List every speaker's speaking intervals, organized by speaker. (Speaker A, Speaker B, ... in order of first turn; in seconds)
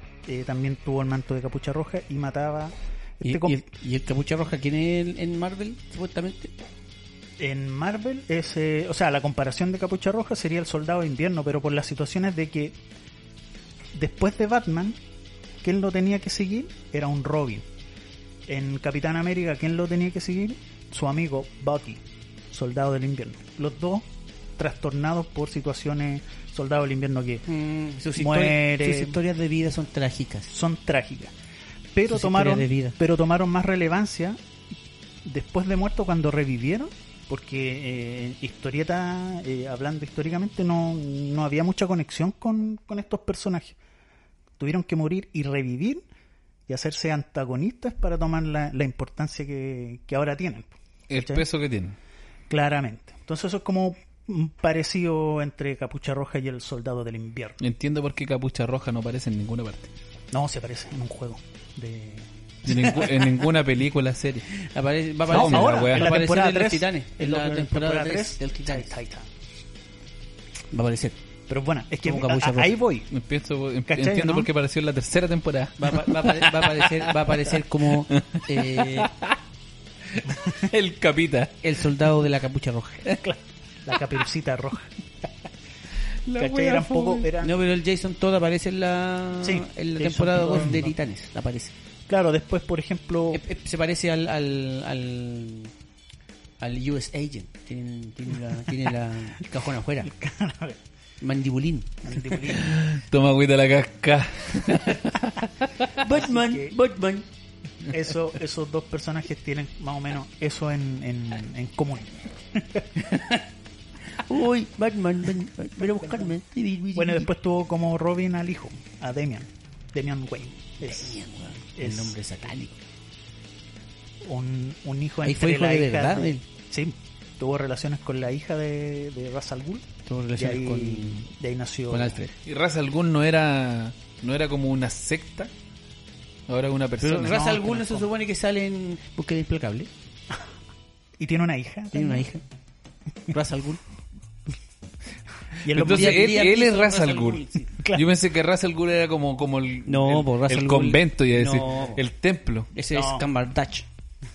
Speaker A: 0.3-3.6, 7.4-12.8, 13.9-15.0, 15.6-17.7, 18.5-27.4, 28.2-29.2, 30.5-31.3, 31.9-34.4, 35.2-43.8, 44.6-46.0, 46.7-51.5, 52.5-57.6, 60.3-63.1, 65.3-69.3, 71.5-73.1, 73.9-74.5, 83.2-84.9, 86.4-87.6, 89.4-90.9, 92.1-93.4, 100.0-100.8, 102.0-102.8, 106.0-106.7, 107.8-113.1, 117.0-121.2, 121.8-122.2, 124.2-132.2, 137.4-138.1, 141.2-142.3, 145.6-146.5, 147.8-148.1, 152.9-153.3
Speaker B: 3.2-6.5, 27.5-30.5, 32.1-33.0, 64.5-68.9, 70.7-71.2, 72.0-72.7, 75.8-79.1, 81.6-83.1, 87.4-91.7, 93.3-95.7, 96.6-100.1, 101.2-102.3, 105.9-107.3, 113.0-113.5, 114.1-117.3, 120.8-122.8, 125.2-126.4, 130.1-131.3, 131.9-132.3, 137.0-139.9, 141.9-142.4, 143.3-143.8, 145.7-147.7, 149.9-152.0, 152.7-153.9
Speaker C: 51.1-52.0, 57.6-59.9, 62.6-64.5, 65.3-66.1, 73.1-79.4, 80.1-81.6, 86.3-87.3, 102.5-105.7, 132.4-135.5, 136.5-137.6, 145.7-152.7